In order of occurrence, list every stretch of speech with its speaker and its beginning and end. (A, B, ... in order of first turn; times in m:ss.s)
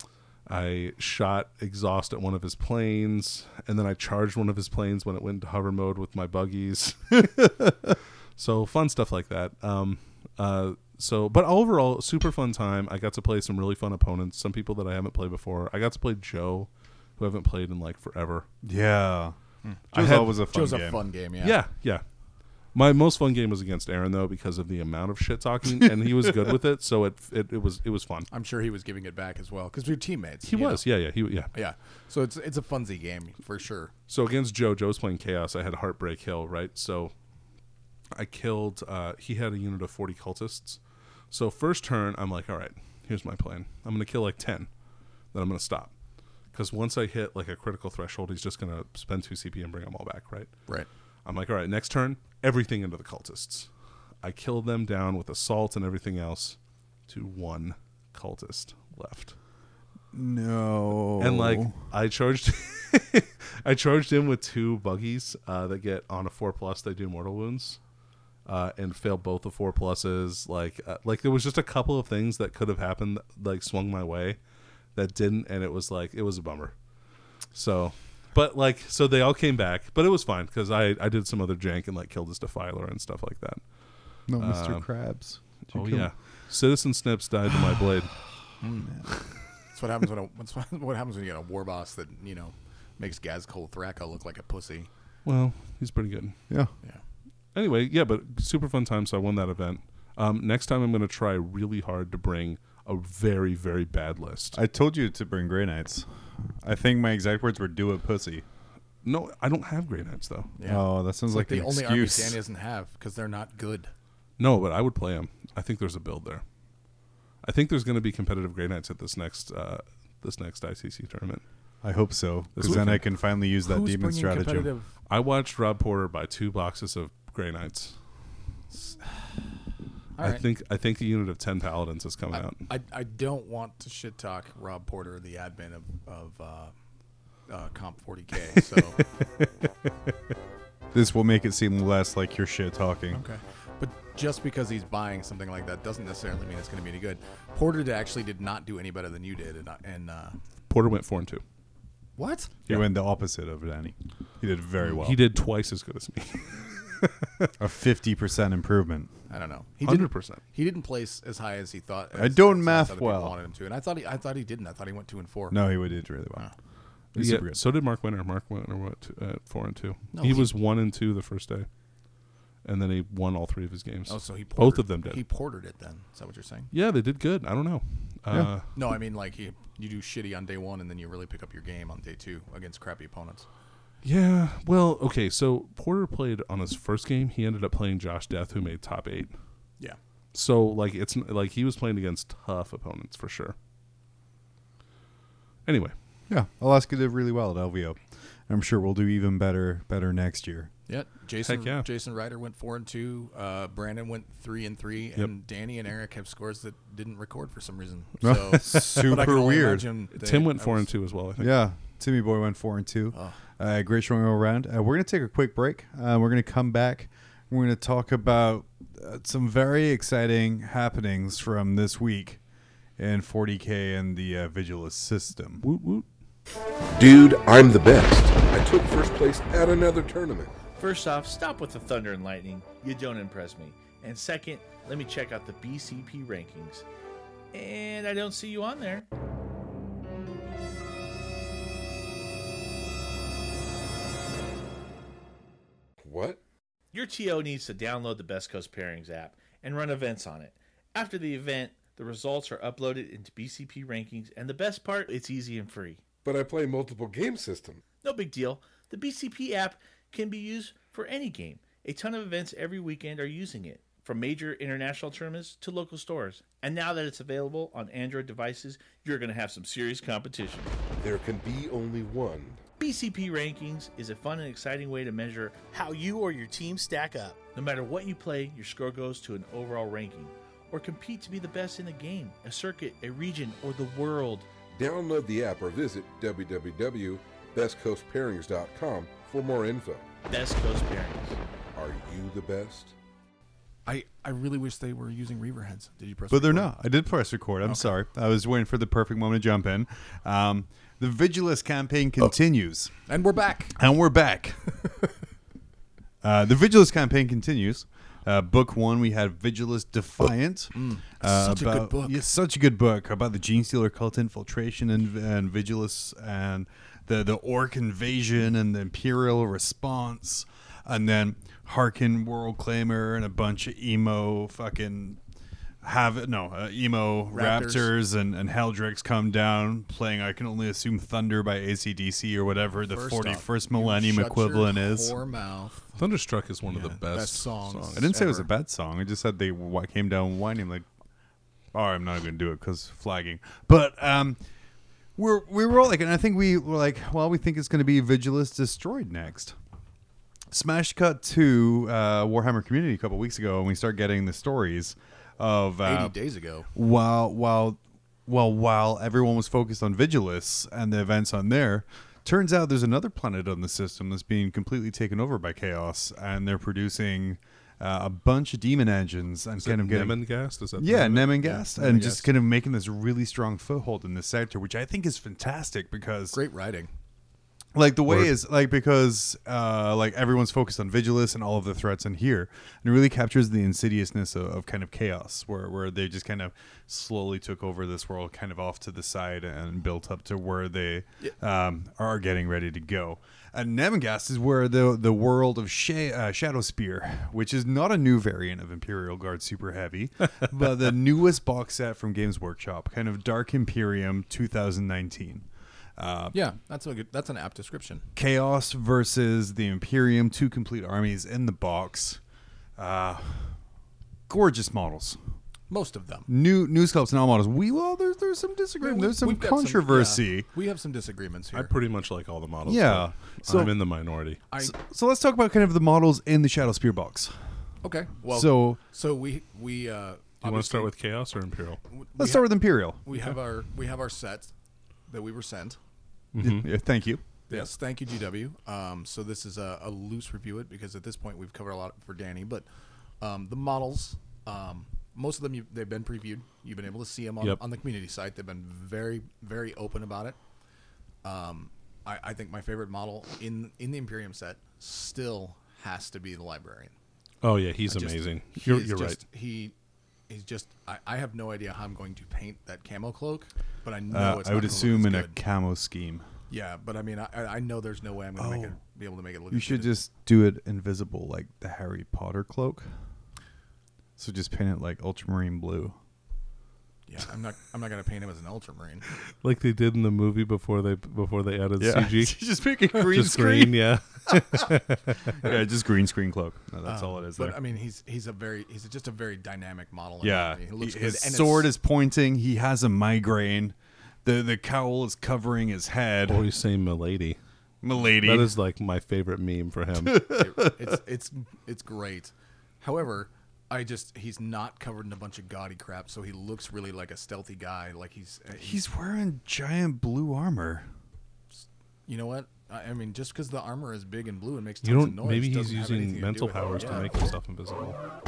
0:00.5-0:18.5 A
0:18.6-0:19.4 B
0:19.9-0:21.0 B
0:19.9-0:20.4 A
0:20.4-0:21.6 C
0:21.4-0:22.0 A
0:22.7-0:28.3 A
0:28.3-0:30.8 C
0:30.5-0:31.5 A
0:31.5-0:33.9 C
0:34.1-0:37.1 A
0:38.1-0:40.8 A
0:41.3-0:44.7 A
0:45.3-0:45.9 A
0:46.5-0:50.5 A
0:51.2-0:53.7 A
0:54.2-0:56.6 A
0:57.1-0:59.4 A
1:00.1-1:01.7 B
1:01.2-1:07.8 A
1:08.5-1:14.4 A
1:15.0-1:16.7 A
1:17.5-1:23.6 A
1:24.3-1:26.1 B
1:24.4-1:24.9 A
1:25.7-1:28.2 A
1:28.6-1:29.0 C
1:29.7-1:34.9 C
1:35.2-1:36.4 A
1:37.6-1:44.6 A
1:44.5-1:48.4 B
1:49.0-1:50.5 A
1:50.6-1:53.9 C
1:50.6-1:52.4 B
1:54.4-1:56.4 A
1:57.4-2:01.4 A
2:01.8-2:04.7 B
2:02.6-2:03.0 A
2:03.6-2:04.9 C
2:05.1-2:08.0 A
2:08.8-2:09.2 C
2:10.2-2:10.4 C
2:10.2-2:12.6 A
2:12.3-2:16.7 C
2:17.5-2:19.0 C
2:20.9-2:23.2 B
2:23.1-2:30.4 C
2:30.7-2:31.4 A
2:32.2-2:32.5 C
2:32.7-2:35.2 B
2:35.0-2:37.5 A
2:37.6-2:39.1 B
2:39.3-2:45.6 C
2:39.8-2:40.4 A
2:42.2-2:43.4 B
2:45.5-2:46.5 B
2:47.1-2:51.7 A
2:47.2-2:47.6 B
2:50.1-2:50.5 C
2:52.6-2:55.2 A
2:54.1-2:56.7 C
2:56.7-2:58.7 A
2:58.8-3:03.5 C
3:04.0-3:09.3 A
3:10.3-3:13.6 A
3:15.7-3:15.9 A
3:16.3-3:20.7 B
3:20.9-3:30.9 C
3:21.5-3:21.9 A
3:28.2-3:29.9 B
3:30.1-3:31.6 A
3:31.4-3:42.4 B
3:33.1-3:33.4 C
3:43.0-3:45.6 B
3:45.6-3:46.1 A
3:47.0-3:50.5 D
3:50.8-3:56.8 E
3:57.5-3:59.1 E
4:06.0-4:06.4 D
4:06.9-4:16.0 E
4:16.2-4:17.8 D
4:18.0-4:30.7 E
4:31.0-4:32.6 D
4:32.8-4:44.5 E
4:44.8-4:50.1 D
4:50.3-4:51.4 E
4:51.8-4:52.9 D
4:53.9-4:56.7 C
4:56.3-5:02.9 B
4:57.6-4:57.9 C
5:03.1-5:03.8 C
5:03.8-5:04.6 B
5:06.2-5:25.2 B
5:10.7-5:12.2 C
5:25.8-5:35.1 B
5:27.3-5:27.9 C
5:32.9-5:36.0 C
5:36.0-5:38.1 A
5:36.7-5:38.5 C
5:38.0-5:40.9 B
5:41.7-5:44.4 B
5:45.2-5:49.6 B
5:50.5-5:56.1 B
5:55.8-5:56.7 C
5:56.7-6:10.2 B
6:09.6-6:11.6 A
6:10.8-6:16.4 B
6:11.4-6:12.3 C
6:16.3-6:16.9 C
6:17.7-6:46.4 B
6:46.3-6:48.1 C
6:48.2-6:52.2 B
6:52.8-6:53.6 B
6:54.3-6:55.2 B
6:55.7-6:56.3 C
6:56.3-7:00.5 B
6:58.8-7:01.7 C
7:01.5-7:04.4 A
7:02.7-7:03.7 B
7:04.5-7:04.8 C
7:04.6-7:07.4 B
7:07.8-7:10.9 C
7:08.3-7:08.8 B
7:10.4-7:11.8 A
7:11.9-7:14.5 C
7:12.2-7:13.0 B
7:15.1-7:15.8 C
7:16.3-7:16.7 A
7:16.4-7:17.2 B
7:17.5-7:22.7 C
7:23.2-7:30.4 C
7:31.2-7:36.9 C
7:37.4-7:39.2 A
7:37.9-7:39.7 C
7:40.3-7:45.4 C
7:44.1-7:46.2 B
7:46.5-7:50.0 C
7:48.4-7:48.8 B
7:49.5-7:52.9 B
7:54.2-7:56.0 B
7:57.1-7:59.1 C
7:59.4-8:02.4 A
8:01.8-8:04.7 B
8:03.0-8:05.4 A
8:05.3-8:07.6 B
8:06.9-8:11.7 C
8:10.2-8:16.5 B
8:16.3-8:17.4 A
8:17.8-8:18.5 B
8:18.2-8:20.3 A
8:20.3-8:28.8 C
8:28.6-8:30.9 B
8:32.1-8:37.1 C
8:34.8-8:38.0 A